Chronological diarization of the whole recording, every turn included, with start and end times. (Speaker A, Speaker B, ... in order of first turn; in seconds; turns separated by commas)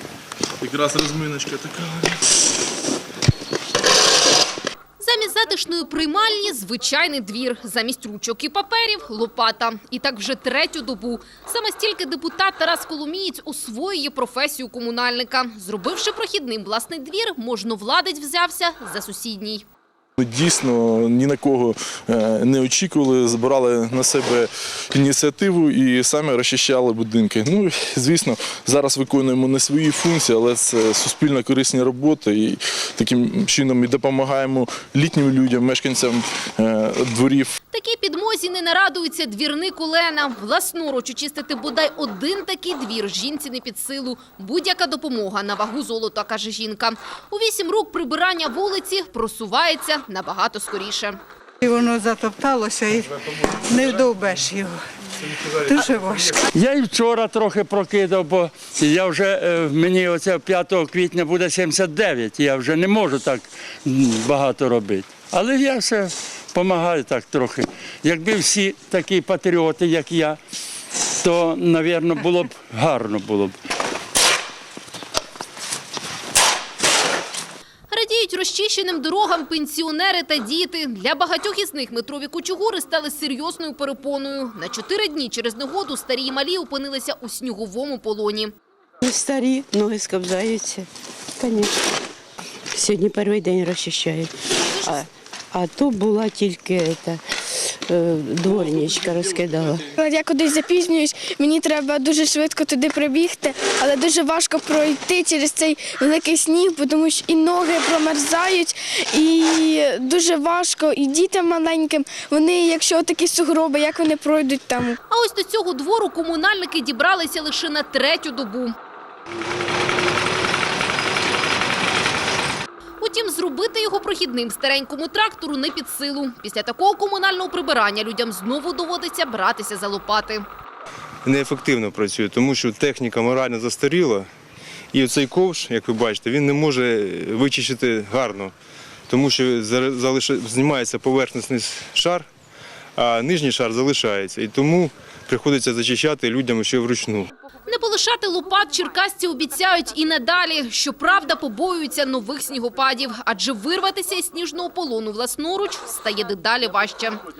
Speaker A: 0.6-2.3, Speaker B: 5.0-19.6, Speaker A: 20.2-37.5, Speaker B: 37.7-51.2, Speaker C: 51.6-54.8, Speaker C: 55.4-56.4, Speaker D: 56.5-70.4, Speaker D: 71.2-73.5, Speaker B: 77.9-88.5, Speaker E: 89.0-91.9, Speaker E: 92.7-99.9, Speaker B: 94.7-95.1, Speaker F: 99.9-115.0, Speaker B: 115.1-118.8, Speaker B: 123.0-130.4, Speaker G: 131.2-134.3, Speaker G: 134.9-138.5, Speaker G: 139.1-142.3, Speaker G: 143.0-147.3, Speaker B: 147.7-157.2